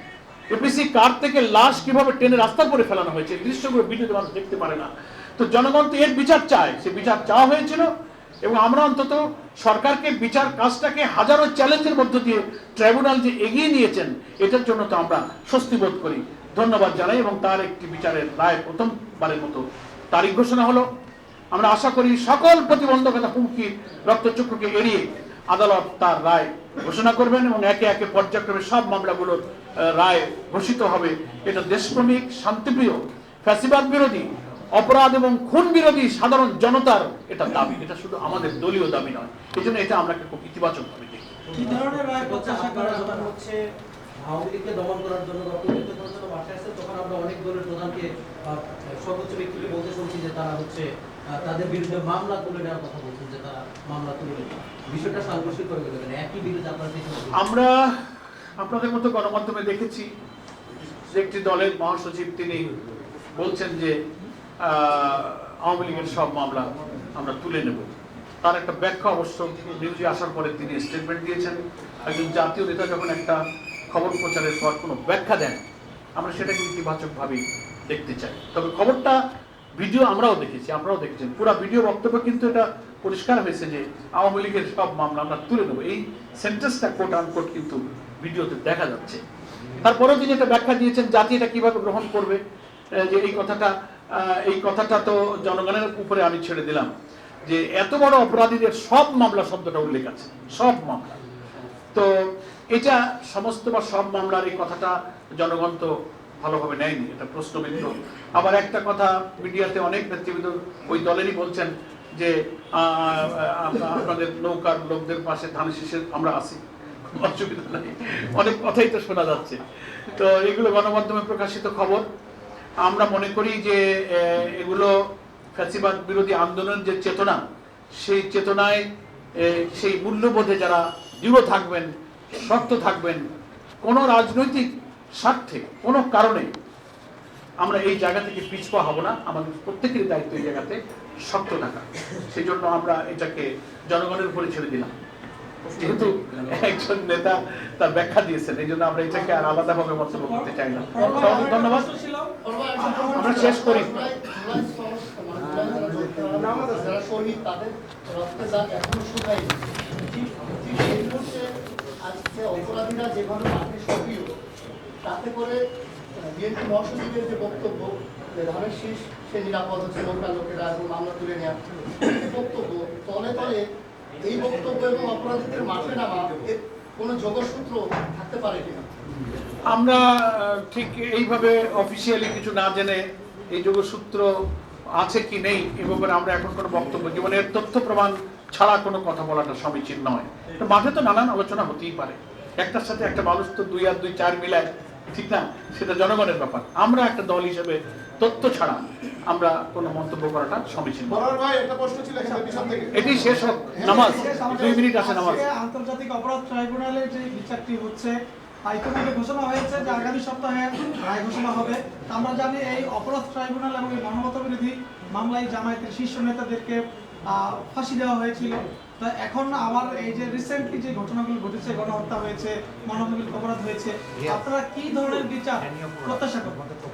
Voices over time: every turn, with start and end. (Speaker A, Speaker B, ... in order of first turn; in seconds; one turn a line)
Speaker A: 0.5-7.9
Speaker A: 8.4-20.9
Speaker A: 21.5-41.3
Speaker B: 41.5-43.3
Speaker C: 41.6-43.6
Speaker C: 44.2-57.4
Speaker A: 57.3-58.0
Speaker A: 58.6-60.1
Speaker A: 61.1-62.7
Speaker A: 63.4-64.0
Speaker A: 64.6-75.6
Speaker A: 76.2-79.2
Speaker A: 79.8-89.2
Speaker A: 89.8-92.4
Speaker A: 92.9-96.9
Speaker A: 97.5-101.2
Speaker A: 102.7-122.0
Speaker A: 122.8-124.9
Speaker A: 125.5-127.4
Speaker A: 128.0-128.8
Speaker A: 129.4-133.3
Speaker A: 133.8-136.5
Speaker A: 137.6-144.9
Speaker A: 145.8-151.9
Speaker C: 145.8-146.1
Speaker B: 150.3-153.8
Speaker D: 151.0-151.5
Speaker D: 152.4-161.5
Speaker A: 153.1-153.9
Speaker D: 162.0-164.3
Speaker D: 165.0-165.6
Speaker D: 166.2-173.6
Speaker D: 174.2-178.9
Speaker A: 179.7-184.3
Speaker A: 185.0-201.3
Speaker E: 201.1-202.9
Speaker B: 202.2-203.2
Speaker A: 202.9-205.4
Speaker E: 203.7-204.6
Speaker B: 203.9-216.8
Speaker B: 217.3-226.6